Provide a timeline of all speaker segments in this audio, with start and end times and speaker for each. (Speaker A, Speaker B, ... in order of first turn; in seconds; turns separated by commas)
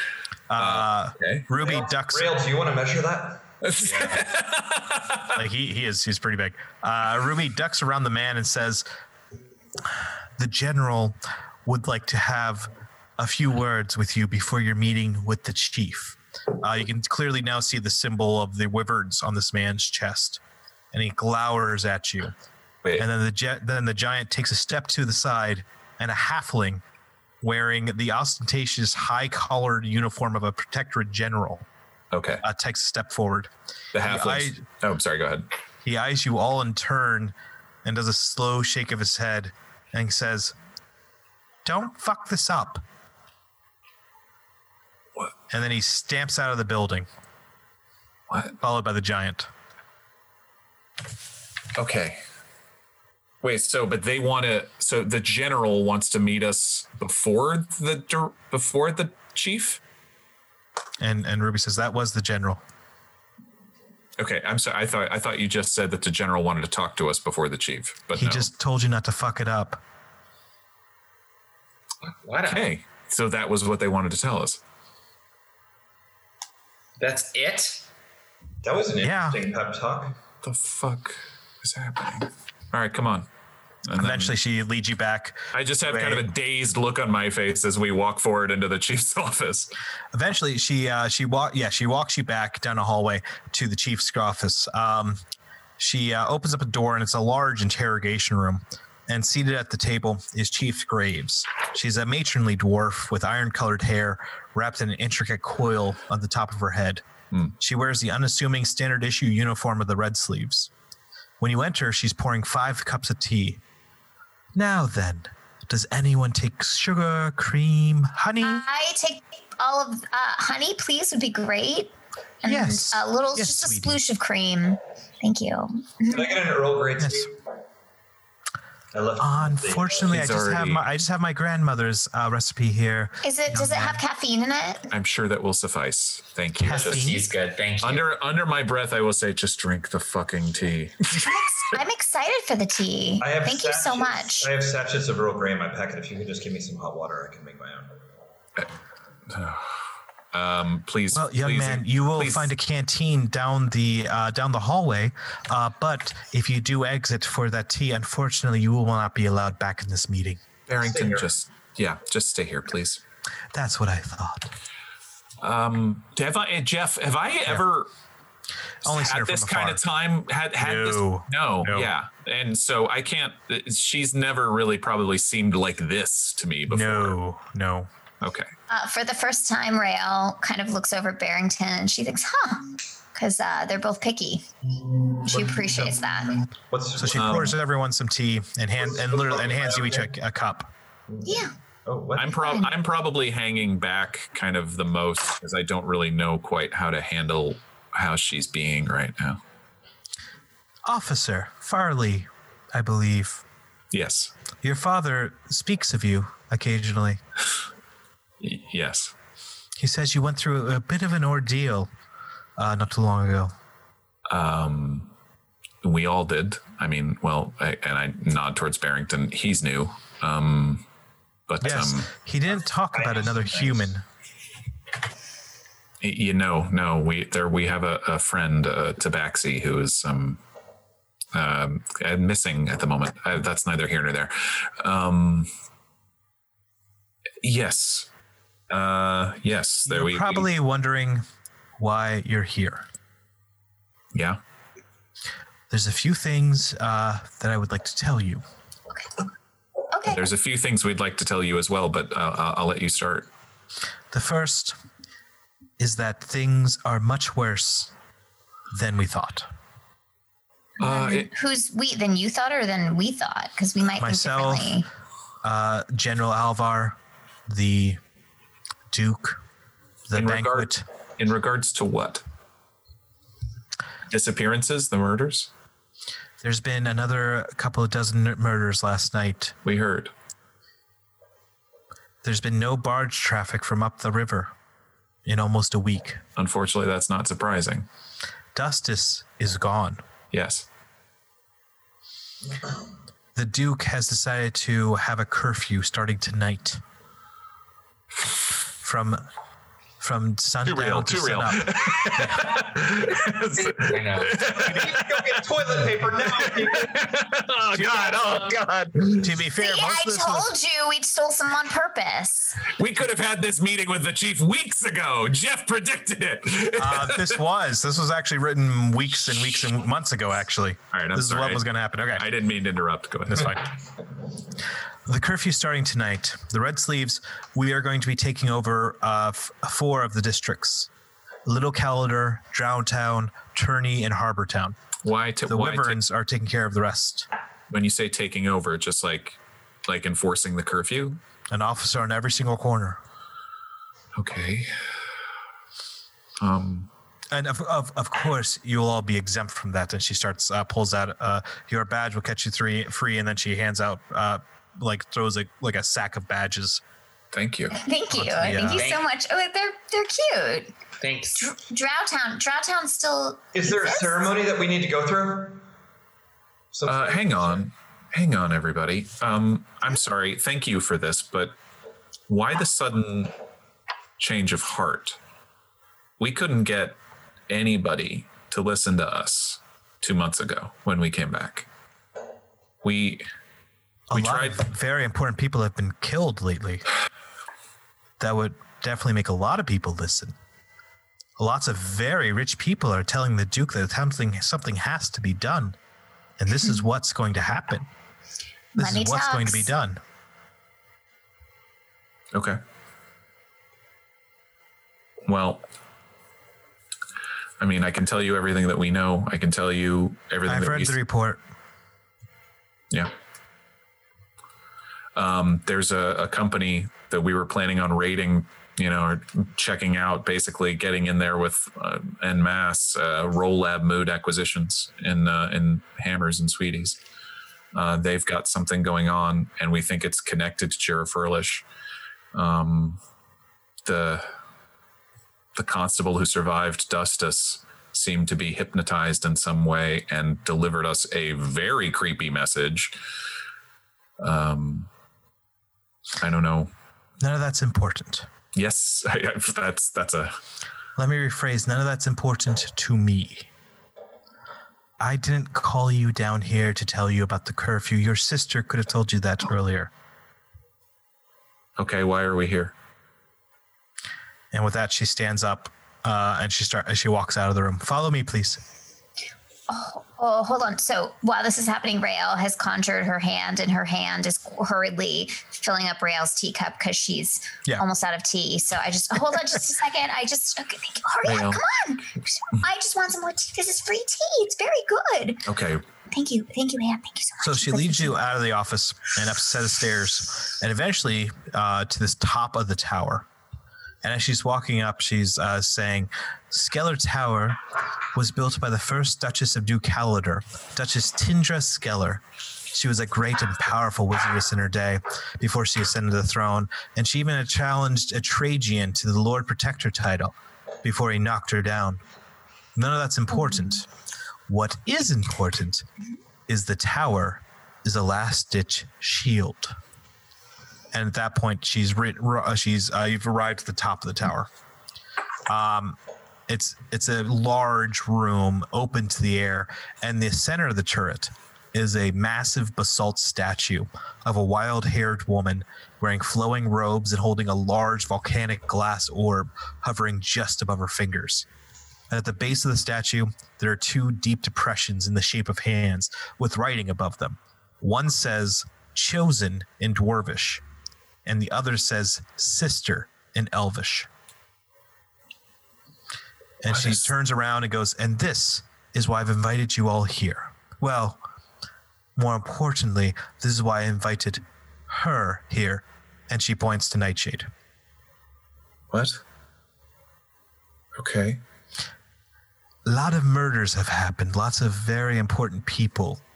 Speaker A: 0.5-2.4, Speaker B: 0.6-1.5, Speaker C: 1.6-3.4, Speaker B: 3.6-5.4, Speaker D: 3.9-4.2, Speaker A: 5.3-8.8, Speaker A: 10.4-20.4, Speaker A: 20.9-22.3, Speaker A: 23.0-26.8, Speaker A: 27.4-31.7, Speaker B: 32.1-32.4, Speaker A: 32.4-33.5, Speaker B: 33.9-35.5, Speaker A: 34.0-34.6, Speaker A: 35.8-40.5, Speaker A: 41.6-42.8, Speaker A: 45.5-47.1, Speaker B: 48.3-48.5, Speaker A: 48.6-49.5, Speaker B: 51.7-52.2, Speaker B: 53.4-59.8, Speaker A: 61.0-62.6, Speaker B: 64.2-68.5, Speaker A: 68.1-69.8, Speaker D: 72.0-72.7, Speaker B: 72.5-74.6, Speaker D: 77.0-77.8, Speaker C: 78.6-80.1, Speaker A: 79.0-79.4, Speaker B: 80.4-83.3, Speaker B: 83.8-84.3, Speaker A: 83.9-86.3, Speaker B: 85.5-89.7, Speaker A: 90.1-95.2, Speaker A: 95.8-107.0, Speaker A: 107.6-110.7, Speaker A: 111.4-113.6, Speaker A: 114.5-118.7, Speaker E: 118.4-126.4, Speaker A: 122.5-124.0, Speaker C: 126.1-127.3, Speaker A: 127.0-127.3, Speaker C: 128.9-130.1, Speaker A: 129.2-134.0, Speaker B: 130.1-130.8, Speaker E: 133.2-134.9, Speaker B: 134.9-137.1, Speaker A: 136.6-137.2, Speaker D: 136.7-138.1, Speaker B: 137.8-141.3, Speaker E: 141.2-144.5, Speaker C: 143.2-147.9, Speaker B: 149.3-149.8, Speaker B: 150.3-152.5, Speaker A: 151.1-160.4, Speaker B: 160.7-163.0, Speaker C: 160.8-161.3, Speaker A: 163.5-164.5, Speaker B: 165.4-167.9, Speaker A: 168.8-169.8, Speaker B: 168.8-177.2, Speaker A: 170.6-171.9, Speaker A: 176.7-177.9, Speaker B: 178.2-178.5, Speaker E: 178.7-184.5, Speaker E: 185.2-186.4, Speaker C: 186.7-187.4, Speaker A: 187.0-190.7, Speaker B: 187.1-187.5, Speaker C: 188.8-190.1, Speaker E: 191.2-191.5, Speaker C: 191.8-192.3, Speaker B: 192.1-199.4, Speaker E: 192.3-192.7, Speaker A: 200.8-203.4, Speaker B: 203.9-204.3, Speaker A: 204.6-207.2, Speaker B: 208.4-209.1, Speaker A: 209.8-211.9, Speaker A: 212.6-213.5, Speaker B: 214.3-215.1, Speaker B: 215.8-220.8, Speaker B: 221.5-222.1, Speaker A: 221.6-224.0, Speaker C: 222.9-223.9, Speaker B: 226.0-230.4, Speaker B: 231.3-235.5, Speaker B: 237.4-238.1, Speaker B: 238.7-240.5, Speaker A: 239.8-241.2, Speaker A: 241.8-242.8, Speaker B: 244.1-244.4, Speaker A: 245.7-248.4, Speaker E: 249.9-250.2, Speaker B: 250.1-253.3, Speaker A: 254.1-254.8, Speaker A: 255.8-257.9, Speaker A: 258.7-259.5, Speaker B: 260.8-261.3, Speaker E: 260.8-264.9, Speaker A: 264.0-264.8, Speaker A: 265.4-268.0, Speaker A: 268.9-269.4, Speaker A: 270.1-270.8, Speaker B: 270.1-272.2, Speaker B: 274.1-275.5, Speaker A: 276.4-279.6, Speaker B: 279.6-280.1, Speaker A: 282.2-284.5, Speaker A: 285.2-286.2, Speaker B: 286.4-287.9, Speaker A: 288.6-290.0, Speaker B: 290.3-290.6, Speaker A: 293.3-296.8, Speaker A: 298.8-299.2, Speaker A: 300.0-302.4, Speaker B: 300.6-305.5, Speaker D: 303.9-304.4, Speaker C: 304.4-307.1, Speaker B: 306.2-309.3, Speaker A: 309.2-310.5, Speaker E: 309.6-312.6, Speaker B: 312.6-317.4, Speaker A: 316.8-322.3, Speaker B: 320.9-323.7, Speaker A: 325.1-330.9, Speaker A: 331.4-334.8, Speaker B: 335.0-336.0, Speaker A: 335.4-337.3, Speaker B: 337.7-341.2, Speaker A: 341.5-343.0, Speaker B: 344.1-344.9, Speaker B: 346.4-346.9, Speaker A: 347.3-356.8, Speaker B: 357.3-357.7, Speaker E: 357.7-360.7, Speaker A: 358.1-358.9, Speaker D: 358.6-359.1, Speaker D: 361.0-361.5, Speaker E: 361.4-364.3, Speaker C: 363.5-365.6, Speaker C: 366.7-367.6, Speaker B: 366.9-371.6, Speaker B: 372.3-373.3, Speaker B: 374.2-375.2, Speaker B: 376.2-377.0, Speaker B: 377.5-381.7, Speaker B: 382.8-383.2, Speaker A: 384.1-386.8, Speaker B: 384.1-384.6, Speaker A: 388.2-390.4, Speaker A: 391.4-395.8, Speaker A: 396.4-397.9, Speaker A: 398.7-400.0, Speaker E: 398.8-399.7, Speaker B: 402.3-402.6, Speaker B: 405.3-405.6, Speaker B: 407.6-411.0, Speaker A: 410.4-411.4, Speaker B: 415.1-427.0, Speaker B: 427.7-431.6, Speaker B: 432.3-433.0, Speaker B: 433.8-434.3, Speaker B: 435.6-442.9, Speaker B: 444.2-444.9, Speaker B: 446.2-446.7, Speaker A: 447.2-448.3, Speaker B: 448.6-450.4, Speaker A: 451.0-453.5, Speaker A: 455.0-459.9, Speaker B: 461.8-462.7, Speaker A: 464.5-468.6, Speaker E: 469.7-485.4, Speaker B: 481.2-481.6, Speaker B: 485.4-485.8, Speaker E: 486.1-488.2, Speaker A: 487.4-493.3, Speaker A: 494.0-497.6, Speaker A: 498.1-512.0, Speaker A: 512.7-513.9, Speaker A: 514.5-515.8, Speaker A: 516.5-519.7, Speaker A: 520.9-524.5, Speaker A: 525.5-541.5, Speaker A: 542.1-550.6, Speaker A: 551.2-554.1, Speaker A: 556.6-561.2, Speaker B: 556.7-557.1, Speaker A: 562.1-567.5, Speaker B: 568.9-569.2, Speaker B: 570.9-571.4, Speaker A: 572.9-576.2